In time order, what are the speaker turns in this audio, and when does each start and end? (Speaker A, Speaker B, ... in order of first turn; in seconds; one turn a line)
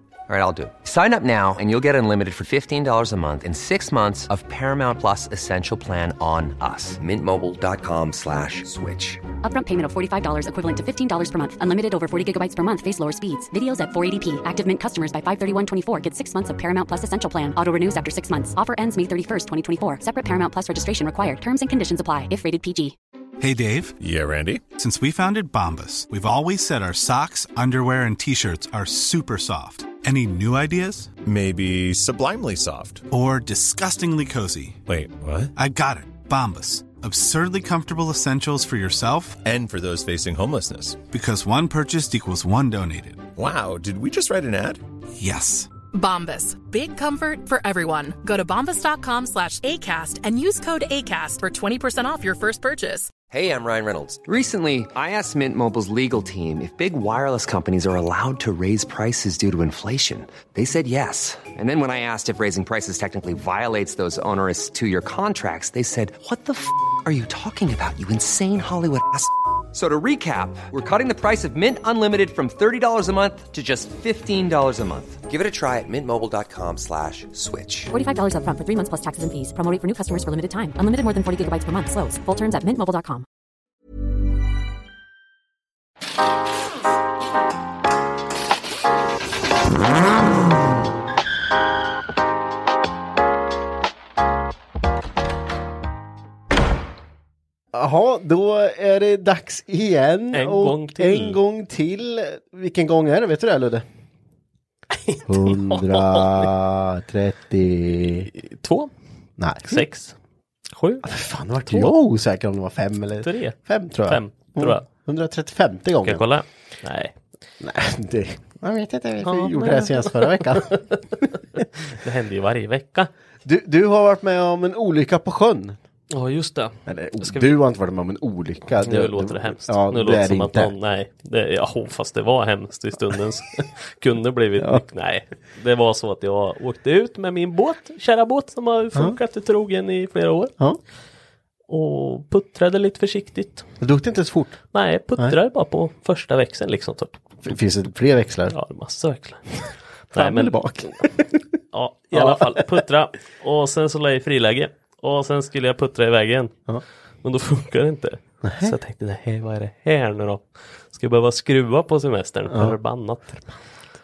Speaker A: 0.3-9.2
Speaker B: 9.4-23.0
Speaker C: 23.4-24.0
Speaker D: 24.0-24.6
Speaker C: 24.8-31.1
Speaker D: 31.2-33.1
Speaker C: 33.1-34.8
Speaker D: 34.9-35.5
Speaker C: 35.6-39.4
Speaker D: 39.4-41.1
Speaker C: 41.1-43.3
Speaker D: 43.4-44.8
Speaker C: 45.2-45.7
Speaker E: 45.9-53.1
Speaker A: 53.3-77.9
Speaker B: 77.9-83.3
Speaker F: 97.7-103.8
Speaker G: 100.3-101.4
Speaker G: 105.0-106.5
Speaker F: 105.3-108.3
Speaker G: 108.4-108.9
Speaker F: 109.4-109.8
Speaker G: 109.7-110.2
Speaker G: 110.7-111.0
Speaker F: 111.0-116.3
Speaker G: 113.2-114.9
Speaker G: 116.0-117.1
Speaker F: 117.6-120.8
Speaker G: 119.2-123.1
Speaker F: 123.5-125.8
Speaker G: 126.1-127.5
Speaker F: 126.9-130.7
Speaker G: 128.8-140.5
Speaker F: 138.9-139.2
Speaker G: 141.7-143.7
Speaker F: 143.8-144.6
Speaker G: 144.7-147.2
Speaker F: 147.4-148.6
Speaker G: 148.5-150.7
Speaker F: 150.1-151.4
Speaker G: 151.7-156.5
Speaker F: 152.1-152.8
Speaker G: 157.2-163.4
Speaker F: 158.4-158.8
Speaker F: 162.5-162.8